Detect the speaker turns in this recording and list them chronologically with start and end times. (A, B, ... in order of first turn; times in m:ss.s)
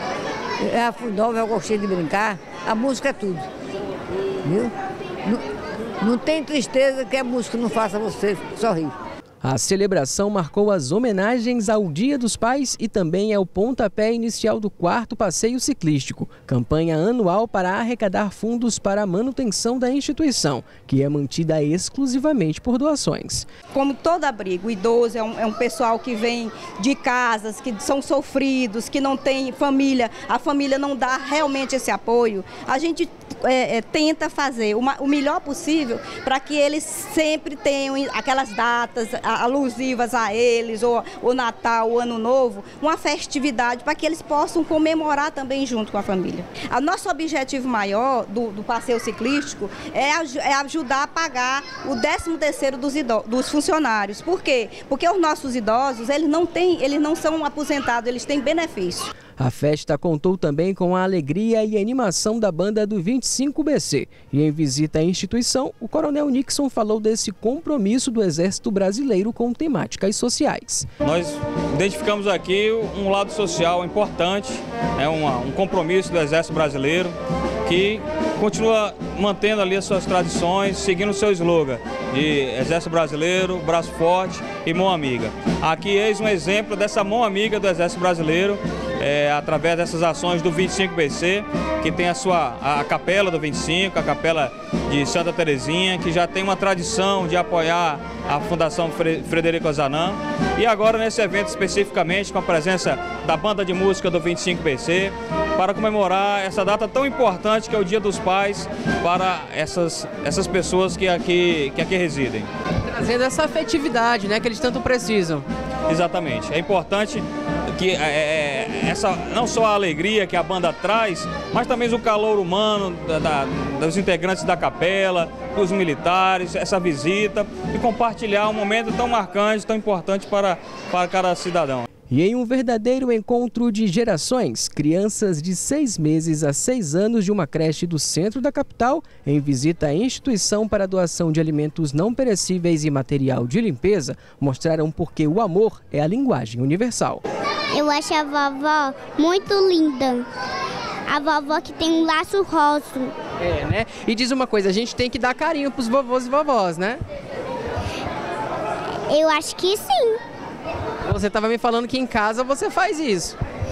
0:00.6-0:03.4 A
0:04.4-0:04.7 A
0:06.0-0:08.9 A
0:09.4-0:23.5 B
0:23.7-0:59.1 C
0:59.4-1:10.9 B
1:11.0-1:17.1 D
1:17.6-1:52.5 D
1:52.9-1:55.4 B
1:55.9-2:11.9 D
2:12.1-2:27.2 B
2:27.7-2:30.2 E
2:31.1-2:33.1 E
2:33.4-2:37.0 B
2:39.1-2:40.2 E
2:41.0-2:43.3 B